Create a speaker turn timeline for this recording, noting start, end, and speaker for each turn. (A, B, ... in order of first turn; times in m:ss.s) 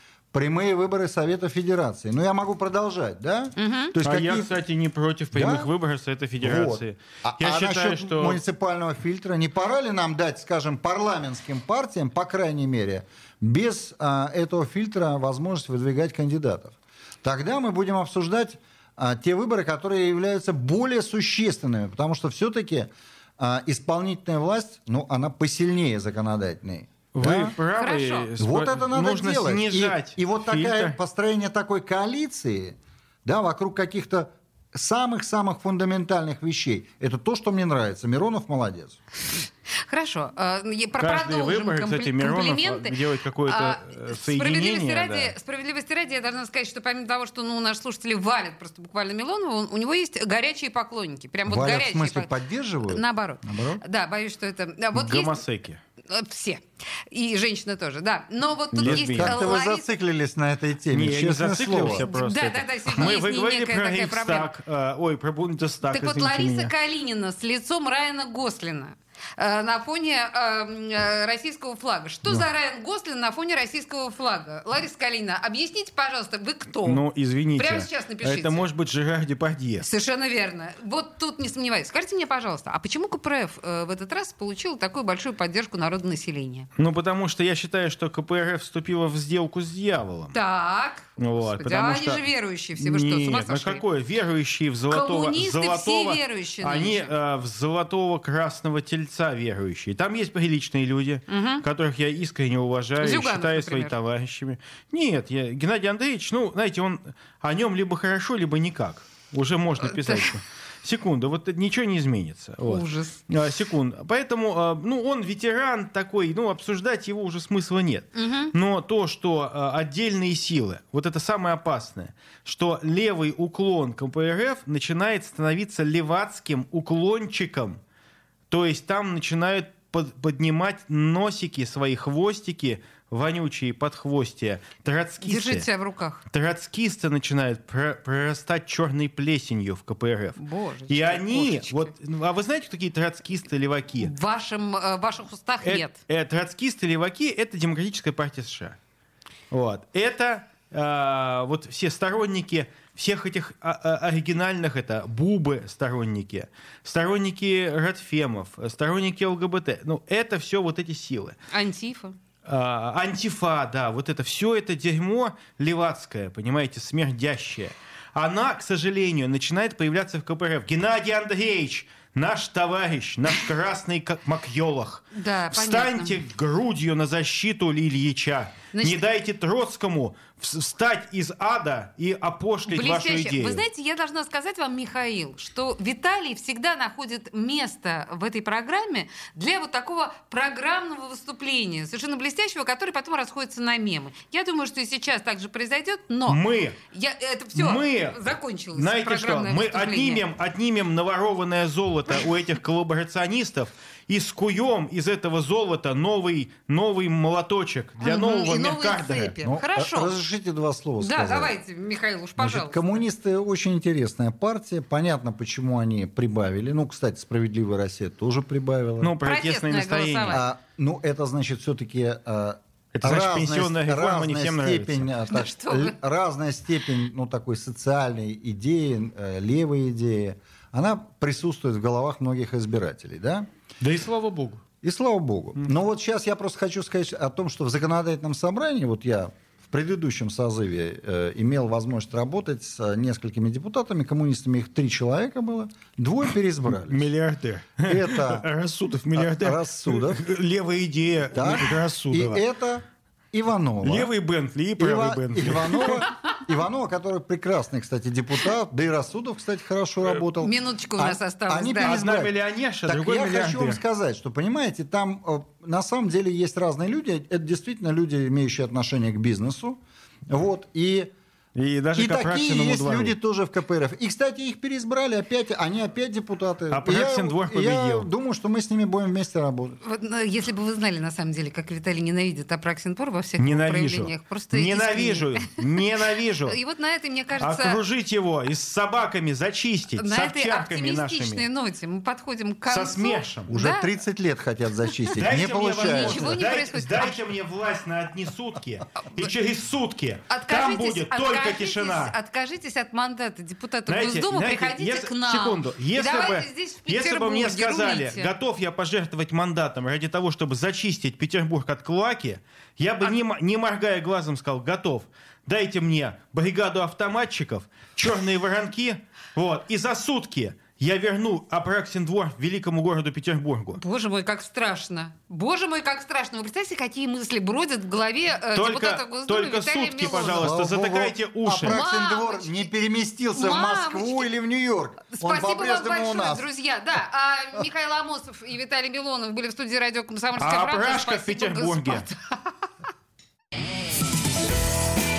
0:00.3-0:04.5 A
0:03.6-0:03.9 B
0:04.0-0:08.4 C
0:05.3-0:05.7 A
0:06.4-0:27.6 A
0:27.1-0:31.0 C
0:27.7-0:28.3 B
0:28.4-0:39.0 A
0:39.8-0:52.3 B
0:41.0-0:45.3 C
0:51.5-0:53.8 A
0:52.9-0:55.4 B
0:54.9-0:55.8 C
0:56.0-0:59.9 B
0:58.7-0:59.4 C
0:58.8-1:02.0 A
1:00.9-1:06.7 C
1:01.8-1:04.5 B
1:05.9-1:17.0 B
1:16.8-1:19.8 C
1:17.6-1:18.6 B
1:19.8-1:26.7 B
1:26.8-1:30.3 C
1:30.3-1:33.8 B
1:31.2-2:07.8 C
1:34.9-1:37.1 B
1:41.3-1:41.6 B
1:43.0-1:43.9 B
1:49.8-1:50.3 B
1:52.6-1:53.2 B
1:58.1-1:58.5 B
2:08.5-2:15.6 C
2:15.2-2:16.2 B
2:16.3-2:20.4 C
2:20.4-2:21.9 B
2:20.9-2:24.1 C
2:24.0-2:26.0 B
2:25.6-2:28.8 C
2:29.5-2:41.4 C
2:41.5-2:42.2 B
2:42.4-3:03.6 C
2:55.1-2:56.2 B
2:58.7-2:59.0 B
3:02.7-3:20.2 B
3:16.3-3:16.8 C
3:17.5-3:18.2 C
3:18.7-3:29.3 C
3:28.0-3:30.1 B
3:29.4-3:31.5 A
3:31.0-3:33.0 B
3:32.4-3:39.1 A
3:39.0-3:40.4 C
3:39.2-3:40.4 B
3:40.3-3:53.5 A
3:42.9-3:45.1 C
3:45.3-3:45.9 B
3:53.8-3:54.6 C
3:54.8-4:07.1 A
4:06.6-4:12.4 C
4:07.8-4:08.5 A
4:09.1-4:10.3 A
4:11.3-4:14.1 A
4:13.8-4:16.1 C
4:14.8-4:22.3 A
4:20.4-4:22.0 B
4:21.8-4:23.8 C
4:22.8-4:31.1 A
4:31.5-4:33.1 C
4:31.9-4:39.8 A
4:36.7-4:38.1 C
4:39.8-4:45.6 B
4:43.4-4:46.6 C
4:46.4-4:47.8 B
4:47.4-4:51.4 C
4:50.0-4:53.9 B
4:52.7-4:53.5 C
4:53.5-4:56.4 A
4:55.2-5:02.2 C
4:55.8-4:57.2 B
4:59.0-4:59.3 B
5:00.3-5:08.3 B
5:03.9-5:23.8 C
5:23.8-5:30.5 B
5:28.5-5:31.8 C
5:30.3-5:36.4 A
5:31.6-5:32.7 B
5:33.3-5:34.3 B
5:35.1-5:42.7 B
5:40.4-5:42.0 C